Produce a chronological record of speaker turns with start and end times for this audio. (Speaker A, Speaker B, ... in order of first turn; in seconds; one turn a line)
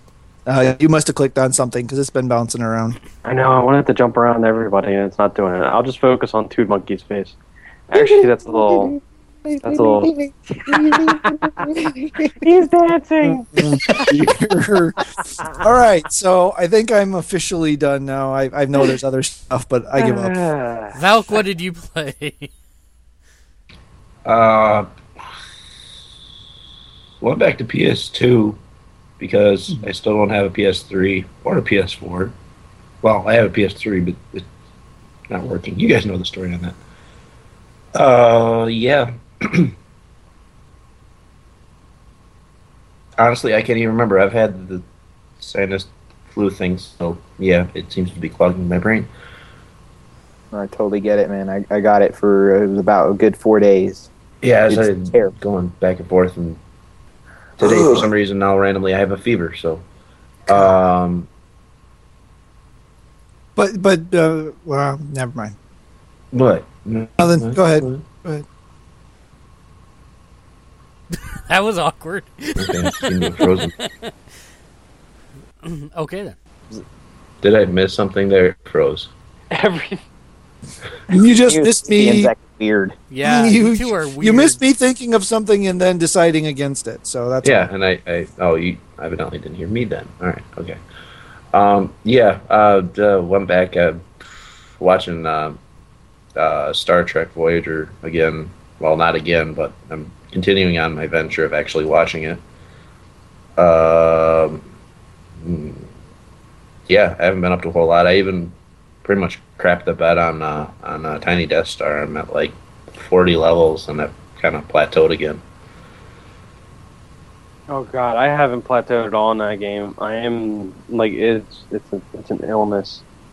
Speaker A: 0.5-3.0
Speaker B: 3.2-7.4
Speaker B: 7.9-8.9
Speaker C: 7.9-12.5
Speaker B: 9.6-10.1
Speaker B: 10.7-11.8
Speaker B: 12.4-14.1
Speaker A: 13.5-15.0
Speaker C: 13.9-14.3
Speaker A: 15.6-20.4
Speaker B: 20.0-21.0
Speaker D: 20.9-22.5
Speaker E: 24.3-24.9
Speaker E: 27.2-28.6
Speaker E: 29.2-32.3
Speaker E: 33.0-34.5
Speaker E: 35.3-36.8
Speaker E: 38.0-39.7
Speaker E: 43.2-44.8
Speaker E: 45.4-49.1
Speaker C: 50.5-54.1
Speaker E: 54.4-56.6
Speaker C: 54.7-55.3
Speaker E: 57.6-59.8
Speaker C: 57.6-58.0
Speaker E: 60.5-61.3
Speaker A: 63.6-65.5
Speaker E: 66.3-68.0
Speaker A: 67.2-68.5
Speaker D: 71.1-74.1
Speaker E: 72.6-73.7
Speaker D: 75.6-76.4
Speaker E: 77.4-79.1
Speaker B: 79.5-80.0
Speaker A: 81.1-82.3
Speaker C: 81.5-83.0
Speaker D: 83.1-84.6
Speaker A: 83.2-87.7
Speaker E: 87.4-90.8
Speaker E: 91.5-95.6
Speaker E: 96.4-102.4
Speaker E: 103.6-104.7
Speaker E: 105.4-105.9
Speaker E: 106.9-115.4
Speaker B: 117.7-123.0